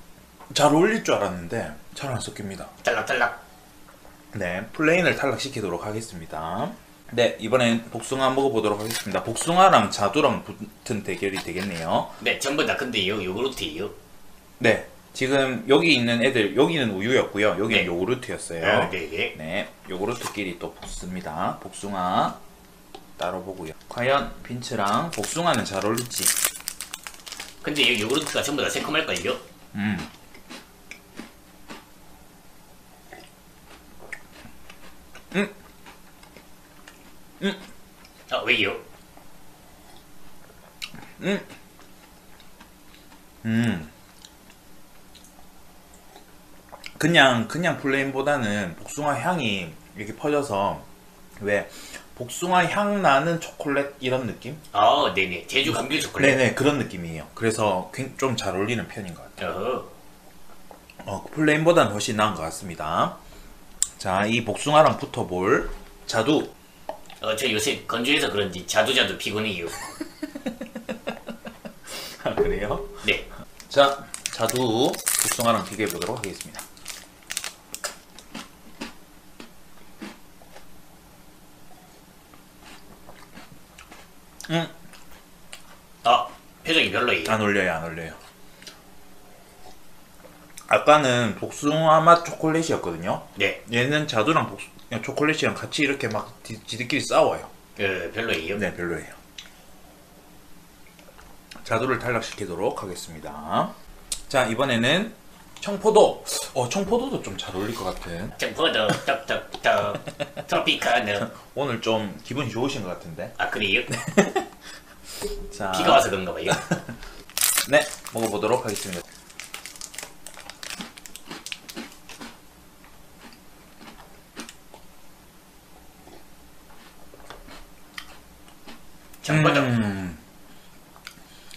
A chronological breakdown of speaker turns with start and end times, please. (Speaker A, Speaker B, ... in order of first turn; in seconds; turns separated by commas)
Speaker A: 0.5-2.7, Speaker B: 2.8-3.4, Speaker A: 4.3-12.2, Speaker B: 12.2-13.9, Speaker A: 14.6-22.4, Speaker B: 18.6-19.4, Speaker A: 23.2-26.4, Speaker B: 27.6-29.4, Speaker A: 29.7-30.1, Speaker B: 38.3-38.8, Speaker A: 41.2-41.5, Speaker A: 43.4-43.9, Speaker A: 47.0-50.9, Speaker A: 51.4-54.6, Speaker B: 54.7-56.5, Speaker A: 55.7-59.4, Speaker B: 59.4-59.9, Speaker A: 61.0-63.2, Speaker A: 64.0-66.5, Speaker B: 67.2-69.8, Speaker A: 71.9-73.0, Speaker A: 73.7-76.7, Speaker A: 84.5-84.7, Speaker B: 86.0-87.4, Speaker A: 87.2-88.2, Speaker A: 90.7-97.5, Speaker B: 97.8-98.7, Speaker A: 98.5-99.2, Speaker A: 101.6-103.7, Speaker A: 104.3-108.4, Speaker B: 108.4-111.3, Speaker A: 111.2-113.4, Speaker B: 113.4-113.9, Speaker A: 113.9-114.5, Speaker A: 115.5-116.8, Speaker B: 115.7-116.6, Speaker A: 117.6-119.0, Speaker B: 129.2-129.8, Speaker A: 129.3-130.2